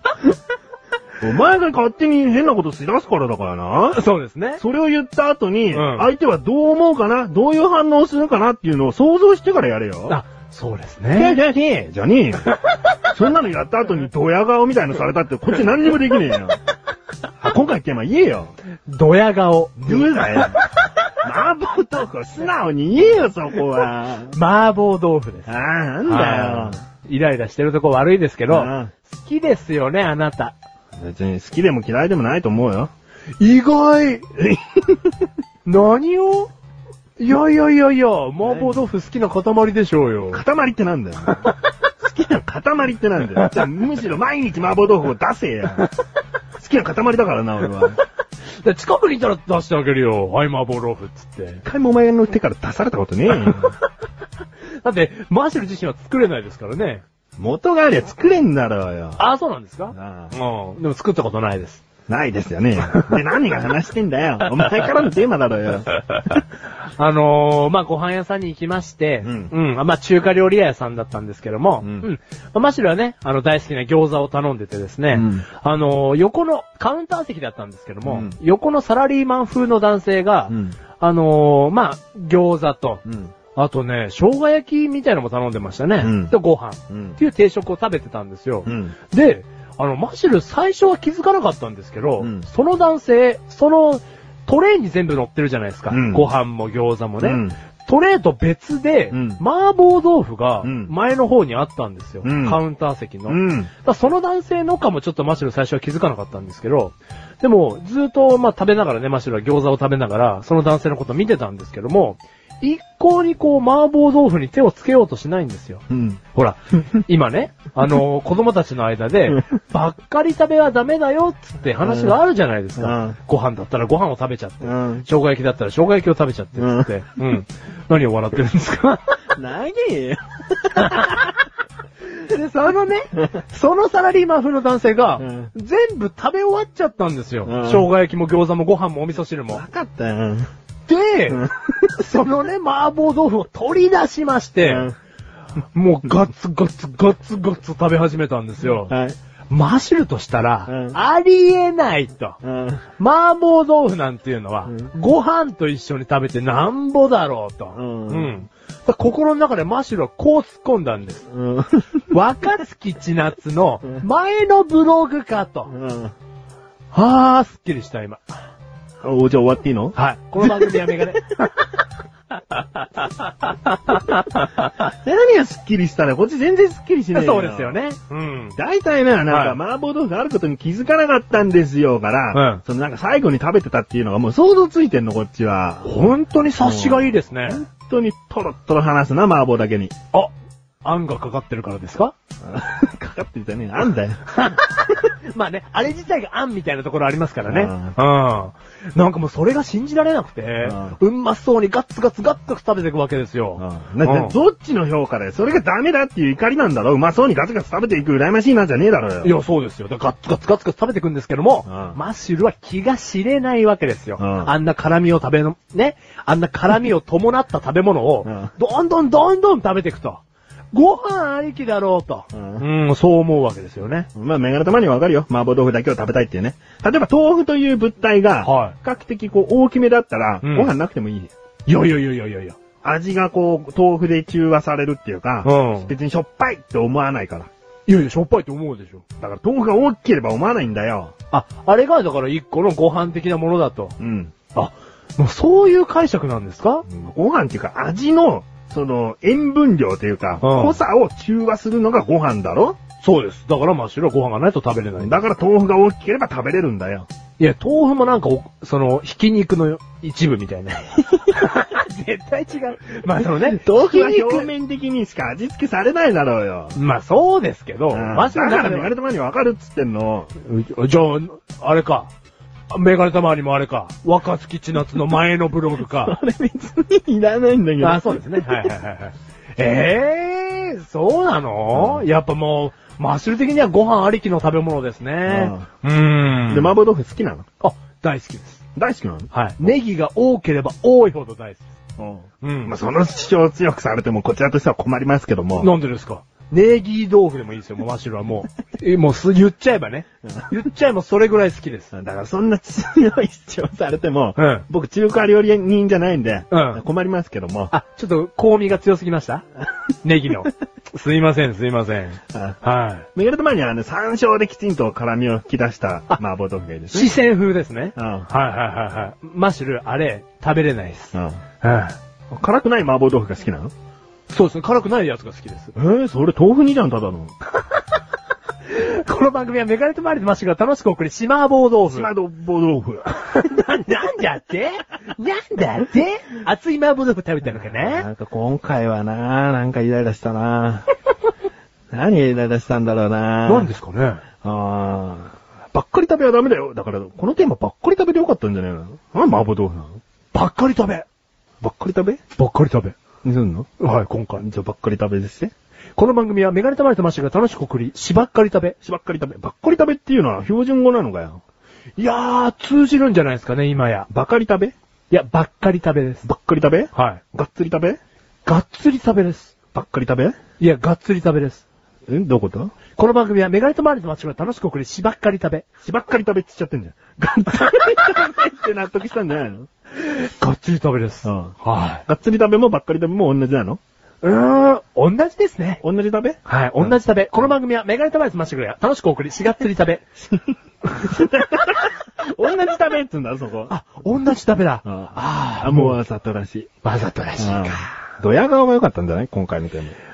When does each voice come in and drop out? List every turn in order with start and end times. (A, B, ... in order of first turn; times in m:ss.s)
0:01.2-0:04.0 A
0:03.9-0:04.6 B
0:04.6-0:10.2 A
0:05.7-0:06.1 B
0:10.1-0:11.4 B
0:11.1-0:16.6 A
0:17.4-0:18.5 A
0:18.9-0:20.6 B
0:19.8-0:20.6 A
0:21.2-0:24.4 A
0:24.3-0:25.5 B
0:25.5-0:26.8 A
0:26.0-0:30.6 B
0:28.5-0:28.9 A
0:31.0-0:32.9 A
0:33.4-0:34.4 B
0:35.6-0:36.5 B
0:37.2-0:40.4 B
0:38.4-0:38.9 A
0:40.3-0:45.9 A
0:46.6-0:48.0 A
0:48.6-0:51.6 B
0:51.6-0:53.7 A
0:53.3-0:53.8 B
0:54.8-0:57.0 B
0:57.4-0:59.2 A
0:59.2-1:01.8 B
0:59.9-1:00.4 A
1:02.1-1:06.0 A
1:06.9-1:23.0 B
1:09.2-1:09.5 A
1:15.1-1:15.5 A
1:18.1-1:18.4 A
1:20.5-1:20.8 A
1:23.1-1:23.3 A
1:23.6-1:55.8 B
1:26.0-1:26.3 A
1:26.9-1:27.2 A
1:28.7-1:29.0 A
1:32.2-1:32.4 A
1:35.9-1:36.3 A
1:37.2-1:37.6 A
1:39.1-1:39.4 A
1:40.6-1:40.9 A
1:42.2-1:42.6 A
1:43.3-1:43.7 A
1:55.9-1:56.2 A
1:56.3-2:09.2 B
2:01.8-2:02.2 A
2:02.8-2:03.2 A
2:04.6-2:05.1 A
2:06.6-2:06.9 A
2:09.4-2:11.2 A
2:10.8-2:11.2 B
2:12.1-2:19.6 B
2:15.2-2:15.5 A
2:17.4-2:17.9 A
2:19.5-2:20.5 A
2:20.9-2:24.9 B
2:21.3-2:22.0 A
2:24.6-2:25.0 A
2:25.7-2:28.9 B
2:28.9-2:29.2 A
2:29.5-2:32.4 B
2:30.7-2:31.0 A
2:32.4-2:32.8 A
2:33.0-2:41.3 B
2:34.7-2:34.9 A
2:37.7-2:38.4 A
2:41.3-2:42.0 A
2:42.1-2:45.7 B
2:45.7-2:46.1 A
2:46.9-2:48.3 B
2:49.0-2:51.0 A
2:50.0-2:51.8 B
2:52.5-2:54.8 B
2:54.8-2:57.8 A
2:57.1-2:58.6 B
2:58.6-3:06.0 A
2:59.3-2:59.6 B
3:02.3-3:02.6 B
3:05.8-3:07.6 B
3:06.6-3:09.9 A
3:10.1-3:12.2 B
3:12.4-3:14.2 A
3:14.3-3:24.4 B
3:17.5-3:18.0 A
3:20.6-3:21.0 A
3:23.6-3:29.3 A
3:29.2-3:40.2 B
3:31.7-3:32.0 A
3:34.2-3:34.5 A
3:38.3-3:38.5 A
3:40.7-3:44.1 B
3:42.3-3:42.7 A
3:44.2-3:51.3 A
3:48.4-3:48.8 B
3:50.4-3:50.7 B
3:51.7-3:52.6 B
3:52.8-3:57.5 A
3:55.4-3:55.9 B
3:57.9-3:59.0 B
3:59.2-4:01.1 A
4:01.3-4:04.0 B
4:04.0-4:04.4 A
4:04.5-4:06.8 B
4:06.9-4:12.8 A
4:10.4-4:10.8 B
4:13.0-4:15.2 B
4:15.0-4:17.1 A
4:17.4-4:24.5 B
4:23.2-4:26.8 A
4:26.8-4:28.9 B
4:27.9-4:30.3 A
4:30.4-4:32.1 B
4:32.7-4:36.2 B
4:35.8-4:38.7 A
4:37.8-4:46.7 B
4:41.7-4:42.1 A
4:45.3-4:45.7 A
4:46.5-4:47.5 A
4:47.6-4:48.6 B
4:48.8-4:49.7 A
4:49.3-4:51.8 B
4:52.0-4:55.7 A
4:52.4-4:52.8 B
4:55.6-5:01.9 B
5:01.9-5:07.7 A
5:04.4-5:04.6 B
5:06.5-5:06.8 B
5:07.7-5:09.4 B
5:10.0-5:13.1 B
5:12.3-5:12.6 A
5:13.2-5:17.1 A
5:16.9-5:22.0 B
5:18.0-5:18.3 A
5:21.1-5:21.4 A
5:22.3-5:23.7 A
5:24.3-5:25.7 B
5:25.8-5:27.3 A
5:28.7-5:32.1 B
5:31.9-5:33.2 A
5:33.3-5:38.1 B
5:37.7-5:40.9 A
5:41.9-5:43.7 A
5:43.5-5:44.2 B
5:44.4-5:50.0 A
5:50.3-5:51.1 B
5:51.6-5:52.2 A
5:52.4-5:53.0 B
5:53.2-5:53.7 A
5:53.8-5:54.4 B
5:54.4-5:55.5 A
5:56.0-5:58.8 B
5:58.8-6:01.4 A
6:02.0-6:04.1 B
6:04.1-6:04.7 A
6:05.1-6:06.2 B
6:06.2-6:08.0 A
6:06.9-6:07.2 B
6:08.4-6:09.5 B
6:09.7-6:10.4 A
6:10.6-6:11.6 B
6:12.1-6:12.7 A
6:13.0-6:15.7 B
6:15.8-6:19.7 A
6:20.0-6:22.0 B
6:21.2-6:21.6 A
6:22.1-6:23.8 A
6:24.2-6:25.8 B
6:25.8-6:27.0 A
6:26.5-6:30.0 B
6:30.2-6:33.7 A
6:33.7-6:36.0 B
6:34.9-6:36.7 A
6:36.8-6:38.0 B
6:37.4-6:40.0 A